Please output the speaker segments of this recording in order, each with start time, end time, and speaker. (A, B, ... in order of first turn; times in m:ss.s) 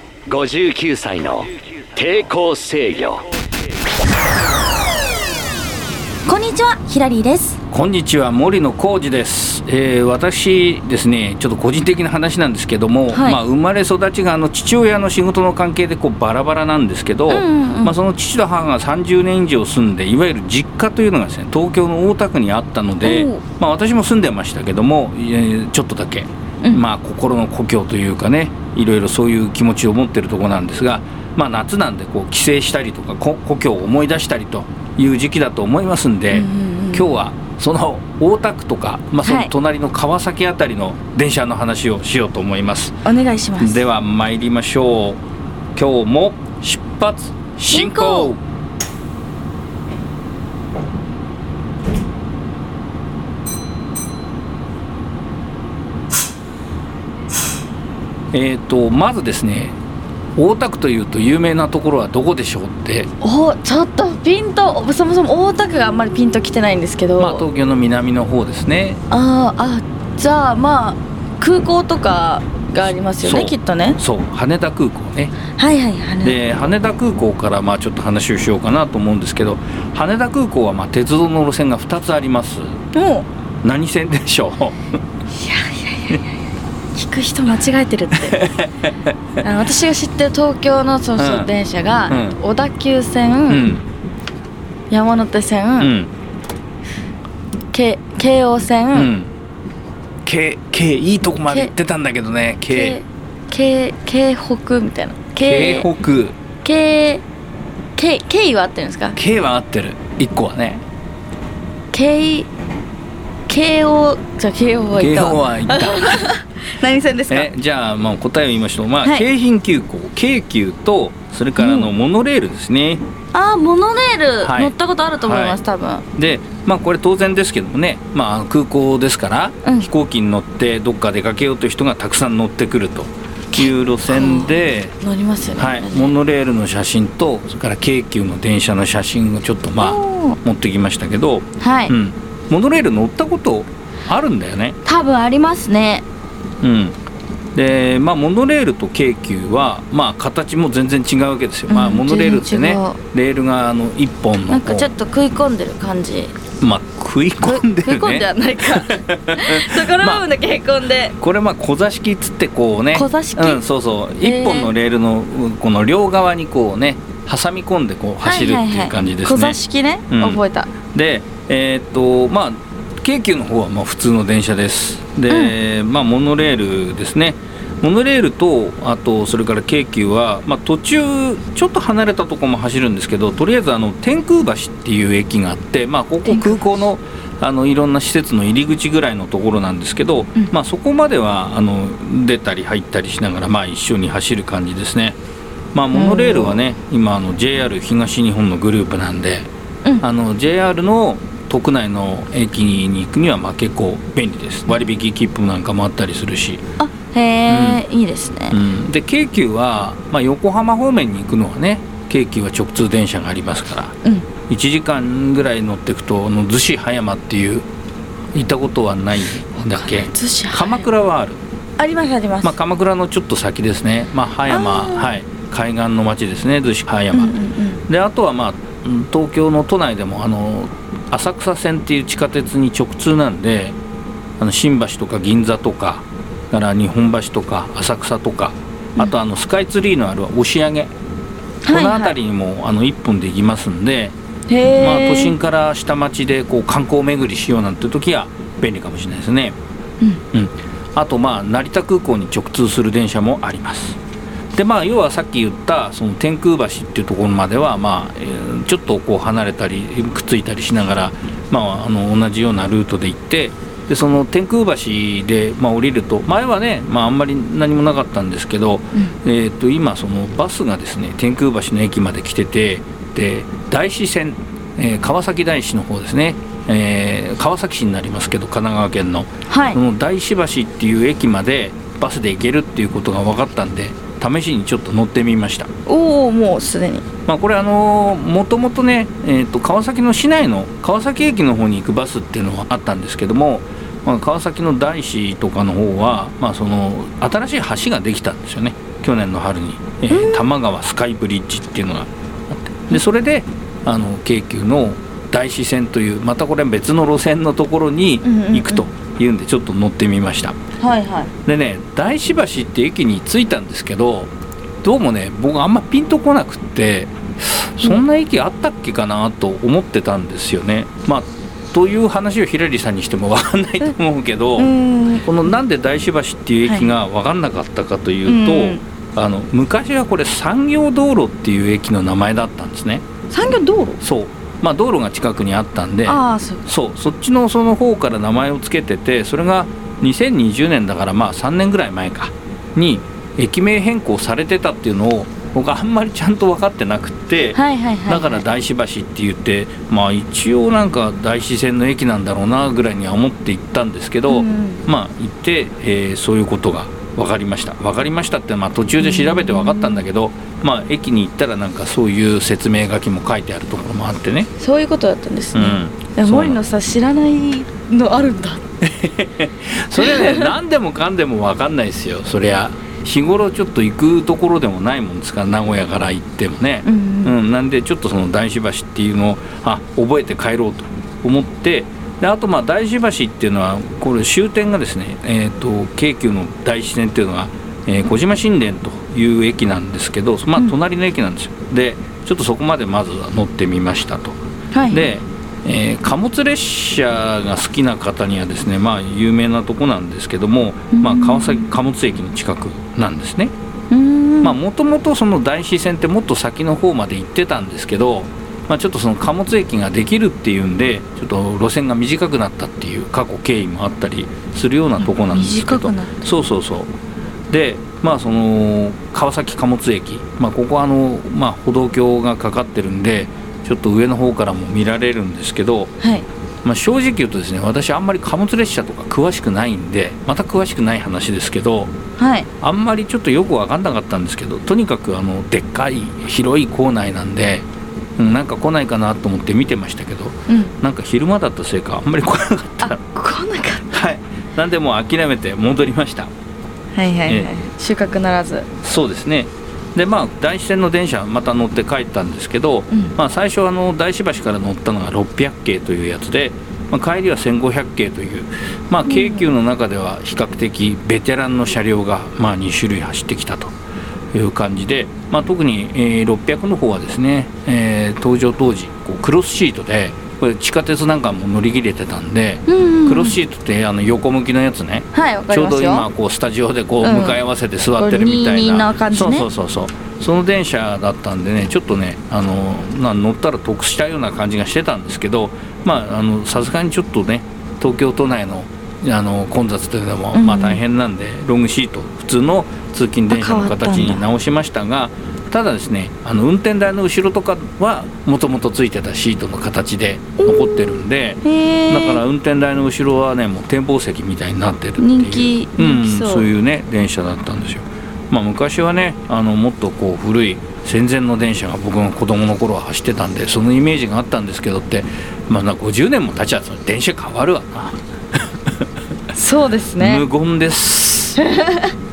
0:00.2-0:03.3 A
0:06.2-0:07.6 B
0:07.7-0:43.0 C
0:13.1-0:13.4 B
0:17.3-0:17.9 B
0:23.0-0:23.4 B
0:36.3-0:37.1 B
0:39.2-0:39.5 B
0:43.0-0:43.8 B
0:43.6-0:45.2 C
0:45.7-0:48.4 C
0:47.7-0:48.3 B
0:58.3-0:59.8 C
1:00.4-1:03.1 C
1:03.2-1:07.4 B
1:07.2-1:09.0 C
1:09.1-1:14.0 B
1:12.8-1:15.4 C
1:15.6-1:16.4 B
1:16.2-1:22.8 C
1:22.9-1:23.3 B
1:23.6-1:24.9 C
1:25.4-1:26.2 B
1:26.9-1:28.4 B
1:28.2-1:29.1 C
1:29.4-1:33.7 B
1:31.2-1:31.5 C
1:32.1-1:32.4 C
1:33.5-1:33.8 C
1:34.9-1:35.9 B
1:35.8-1:36.1 C
1:37.7-1:39.1 B
1:38.9-1:39.3 C
1:40.2-1:43.0 C
1:41.4-1:41.7 B
1:42.7-1:45.9 B
1:45.4-1:46.4 C
1:46.6-1:47.2 B
1:48.0-1:49.2 B
1:49.1-1:50.8 C
1:51.9-1:52.5 B
1:53.5-1:57.5 B
1:55.0-1:56.3 C
1:57.3-2:03.0 C
1:59.0-1:59.3 B
2:01.6-2:01.9 B
2:03.3-2:06.0 B
2:04.4-2:05.6 C
2:06.1-2:15.0 C
2:09.6-2:09.9 B
2:13.5-2:16.1 B
2:15.6-2:24.8 C
2:19.8-2:20.4 B
2:21.6-2:21.9 B
2:24.8-2:26.0 B
2:26.6-2:27.0 C
2:27.5-2:34.9 C
2:31.7-2:33.0 B
2:34.5-2:36.3 B
2:36.6-2:40.2 C
2:37.4-2:41.1 B
2:41.2-2:49.6 C
2:42.9-2:43.6 B
2:44.2-2:44.7 B
2:48.2-2:50.7 B
2:50.1-3:15.2 C
2:55.3-2:55.6 B
3:06.2-3:06.6 B
3:15.7-3:26.6 C
3:15.9-3:16.6 B
3:26.8-3:28.6 B
3:27.5-3:27.8 C
3:28.5-3:37.7 C
3:38.3-3:41.4 C
3:39.8-3:40.9 B
3:41.8-3:42.5 B
3:42.4-3:47.3 C
3:44.5-3:45.1 B
3:47.1-3:47.8 B
3:47.9-3:53.8 C
3:54.4-4:00.9 C
4:01.6-4:02.2 B
4:01.7-4:04.1 C
4:04.5-4:05.3 B
4:04.8-4:09.6 C
4:10.3-4:14.0 C
4:14.5-4:45.7 C
4:39.5-4:39.8 B
4:45.8-4:47.0 B
4:47.2-5:10.6 C
5:00.1-5:00.4 B
5:08.2-5:08.9 B
5:10.8-5:11.3 B
5:11.4-5:24.7 C
5:24.6-5:25.3 B
5:25.2-5:33.0 C
5:26.6-5:26.9 B
5:28.2-5:28.8 B
5:33.3-5:34.0 B
5:34.0-6:04.5 C
5:36.0-5:36.6 B
5:47.5-5:48.4 B
5:54.3-5:54.8 B
5:59.0-6:00.0 B
6:04.6-6:08.6 B
6:05.5-6:06.6 C
6:08.8-6:43.5 C
6:10.0-6:10.5 B
6:16.8-6:17.3 B
6:34.7-6:35.1 B
6:40.9-6:41.7 B
6:43.9-6:44.6 B
6:44.4-6:56.9 C
6:55.0-6:56.2 B
6:57.5-7:05.9 C
7:06.0-7:06.2 B
7:06.6-7:11.9 C
7:12.2-7:12.5 B
7:12.6-7:23.0 C
7:22.8-7:23.9 B
7:23.9-7:26.3 C
7:26.9-7:28.7 B
7:27.2-7:27.5 C
7:28.8-7:43.7 C
7:39.0-7:39.5 B
7:44.3-8:38.8 C
7:52.7-7:53.4 B
7:55.1-7:56.1 B
7:57.0-7:57.4 B
7:58.0-7:59.5 B
8:10.3-8:10.8 B
8:13.3-8:14.3 B
8:20.4-8:22.2 B
8:25.0-8:26.5 B
8:39.3-8:40.2 B
8:40.0-8:41.4 C
8:41.4-8:41.9 B